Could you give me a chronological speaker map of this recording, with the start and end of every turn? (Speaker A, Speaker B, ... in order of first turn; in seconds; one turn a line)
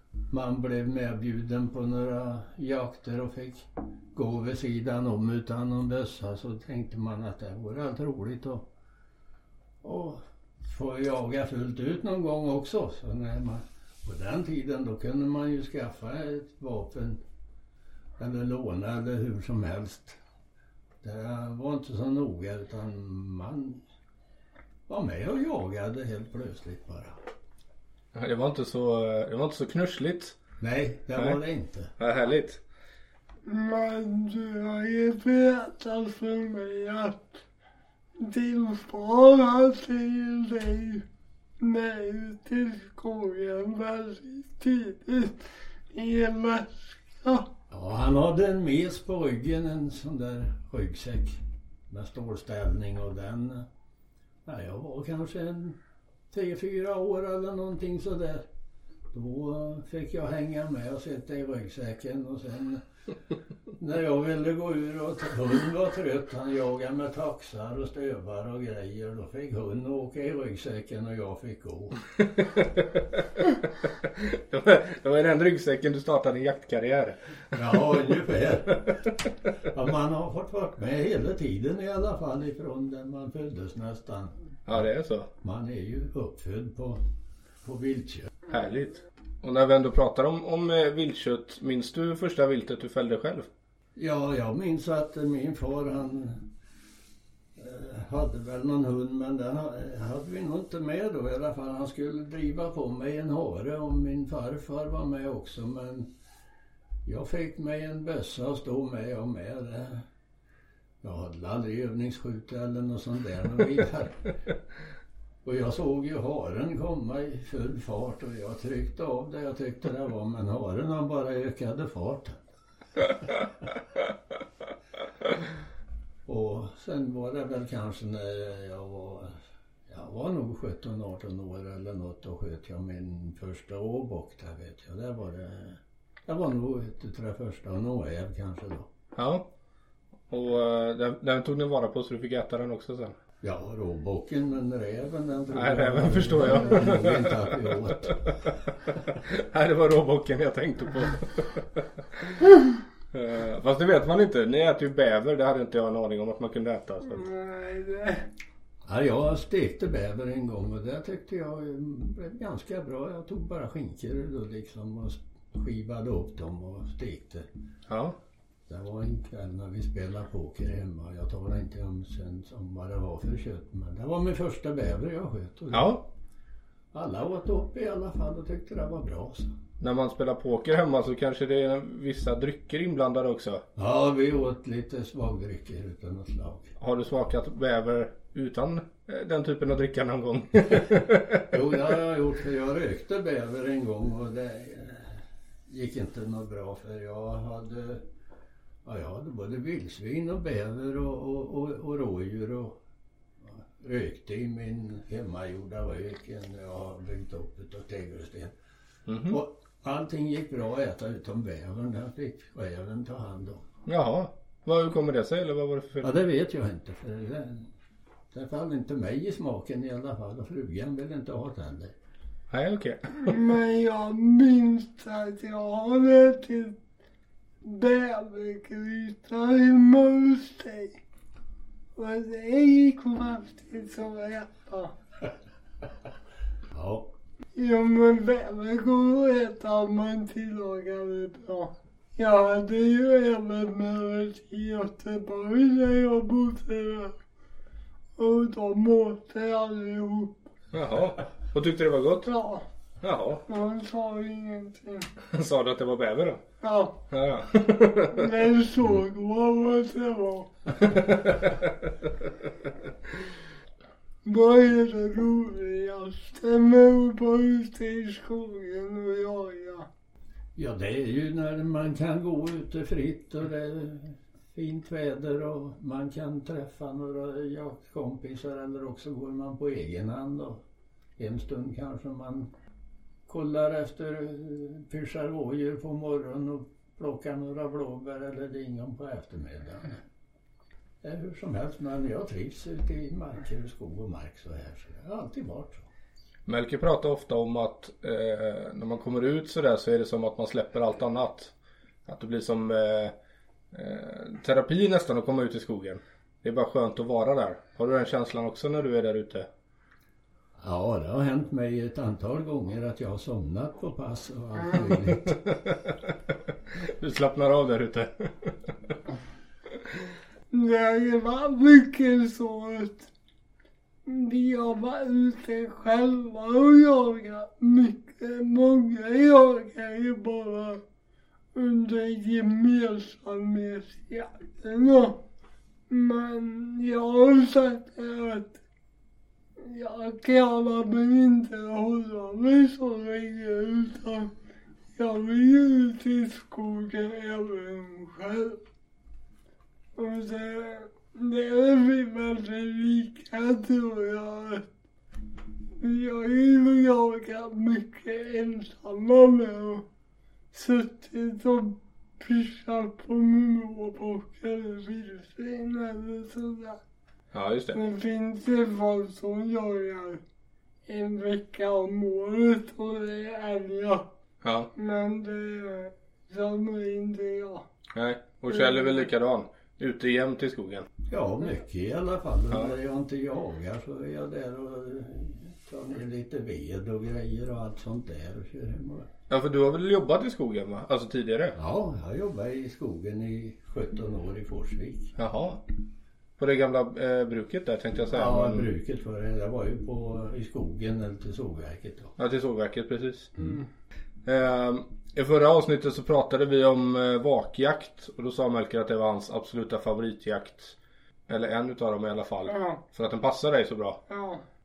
Speaker A: 0.3-8.7
Speaker A: 9.8-17.2
Speaker A: 18.2-20.2
Speaker A: 21.0-23.8
Speaker A: 24.9-27.2
Speaker B: 28.1-30.4
Speaker A: 30.6-31.9
Speaker B: 32.0-32.6
Speaker C: 33.5-37.3
Speaker C: 38.2-41.0
Speaker C: 41.6-47.5
Speaker A: 47.7-53.7
Speaker A: 54.4-55.8
Speaker A: 56.3-58.5
Speaker A: 59.1-62.8
Speaker A: 63.8-72.0
Speaker B: 72.4-73.6
Speaker B: 74.1-77.6
Speaker A: 77.5-84.8
Speaker B: 84.7-85.3
Speaker A: 85.4-87.0
Speaker A: 87.6-88.3
Speaker B: 88.5-93.5
Speaker A: 94.0-96.5
Speaker A: 97.5-106.1
Speaker A: 107.0-110.1
Speaker A: 111.0-114.3
Speaker A: 115.4-122.4
Speaker A: 126.2-138.9
Speaker B: 139.2-139.5
Speaker B: 140.3-143.2
Speaker A: 143.4-148.2
Speaker B: 145.5-152.5
Speaker B: 153.1-157.2
Speaker C: 157.1-158.3
Speaker A: 158.8-167.5
Speaker B: 167.9-168.2
Speaker A: 168.7-175.9
Speaker B: 175.7-176.0
Speaker A: 176.9-179.6
Speaker B: 179.8-183.6
Speaker A: 183.8-186.7
Speaker B: 186.8-191.5
Speaker A: 191.5-198.1
Speaker A: 198.8-202.8
Speaker A: 203.4-208.5
Speaker B: 209.1-209.4
Speaker A: 209.2-213.6
Speaker B: 213.8-216.1
Speaker A: 216.0-217.7
Speaker A: 218.3-221.9
Speaker B: 222.5-223.4
Speaker C: 223.2-226.8
Speaker C: 227.6-231.0
Speaker C: 231.9-234.9
Speaker A: 236.7-237.1
Speaker C: 237.5-247.2
Speaker C: 248.2-250.3
Speaker B: 250.7-252.3
Speaker C: 252.2-252.6
Speaker B: 253.0-253.4
Speaker C: 253.5-255.1
Speaker B: 255.2-256.4
Speaker C: 256.6-256.9
Speaker B: 257.1-258.3
Speaker C: 258.1-260.5
Speaker B: 260.8-261.9
Speaker C: 264.2-269.9
Speaker A: 270.6-280.6
Speaker A: 281.2-282.5
Speaker A: 283.3-290.0
Speaker A: 291.0-295.9
Speaker B: 296.5-301.5
Speaker B: 302.0-303.1
Speaker B: 303.7-309.5
Speaker A: 310.6-315.4
Speaker B: 315.1-316.2
Speaker B: 316.8-318.9
Speaker C: 320.5-323.1
Speaker C: 324.1-330.8
Speaker C: 331.5-335.2
Speaker C: 335.9-338.6
Speaker C: 339.6-344.3
Speaker C: 344.9-348.6
Speaker C: 349.9-354.6
Speaker C: 355.8-359.8
Speaker C: 360.5-366.8
Speaker B: 367.3-367.8
Speaker C: 367.7-370.2
Speaker C: 370.9-374.1
Speaker B: 374.4-374.7
Speaker C: 374.7-377.6
Speaker B: 377.9-380.9
Speaker A: 381.1-389.1
Speaker B: 389.3-391.6
Speaker A: 391.5-395.1
Speaker B: 395.2-395.6
Speaker B: 396.4-398.7
Speaker A: 398.1-402.1
Speaker B: 402.2-403.3
Speaker B: 404.2-410.8
Speaker B: 411.3-414.0
Speaker C: 412.5-412.8
Speaker C: 414.1-414.4